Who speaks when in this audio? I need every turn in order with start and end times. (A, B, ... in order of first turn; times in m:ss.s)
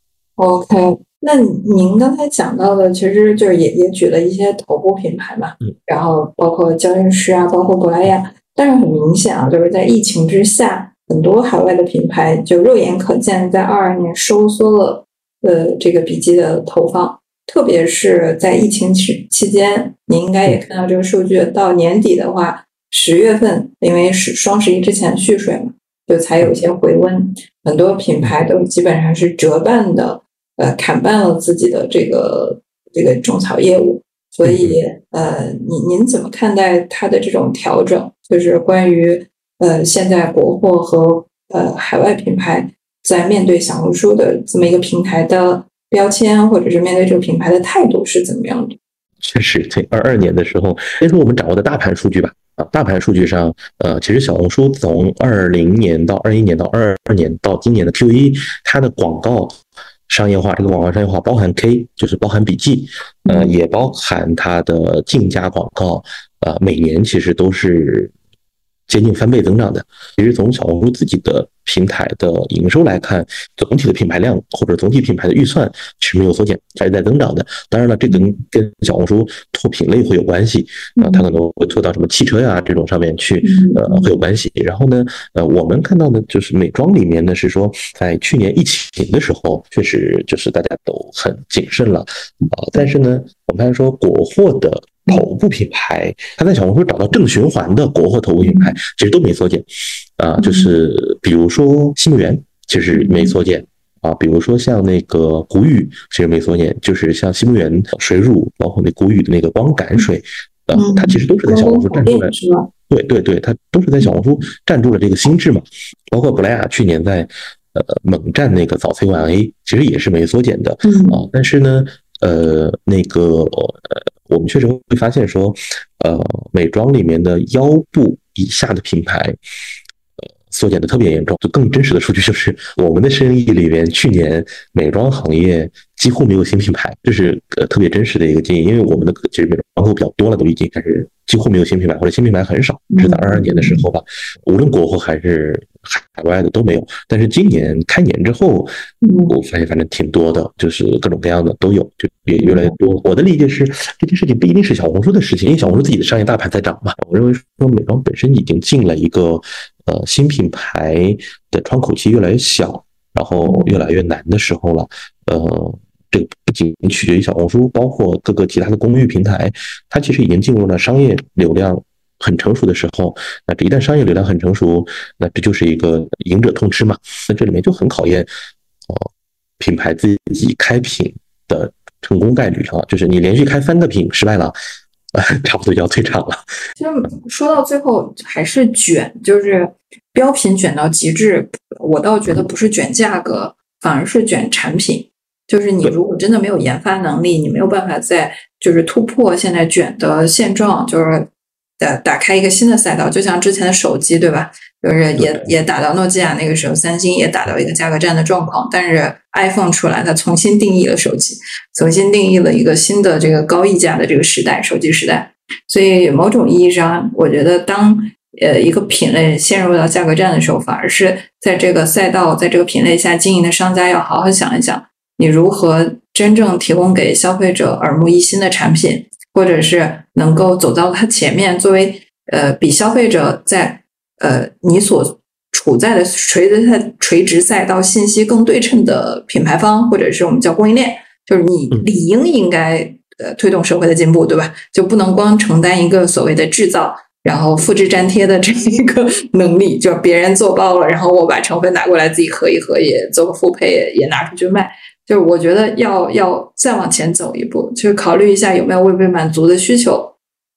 0:00.4-0:48.8 A
0:34.4-0:34.8 B
0:49.2-1:08.1 B
1:03.2-1:03.5 A
1:08.9-1:39.6 B
1:18.1-1:18.3 A
1:21.0-1:21.2 A
1:23.4-1:24.1 A
1:38.4-1:38.8 A
1:40.2-1:52.3 B
1:40.4-1:40.7 A
1:42.9-1:43.3 A
1:50.7-1:52.7 A
1:52.9-2:09.4 B
2:00.8-2:01.2 A
2:10.5-2:28.7 B
2:22.9-2:23.8 A
2:29.0-2:29.3 A
2:29.3-2:58.3 B
2:32.4-2:32.7 A
2:43.4-2:43.8 A
2:59.6-3:04.5 B
3:05.1-3:06.4 B
3:06.8-4:20.1 A
3:25.2-3:25.5 B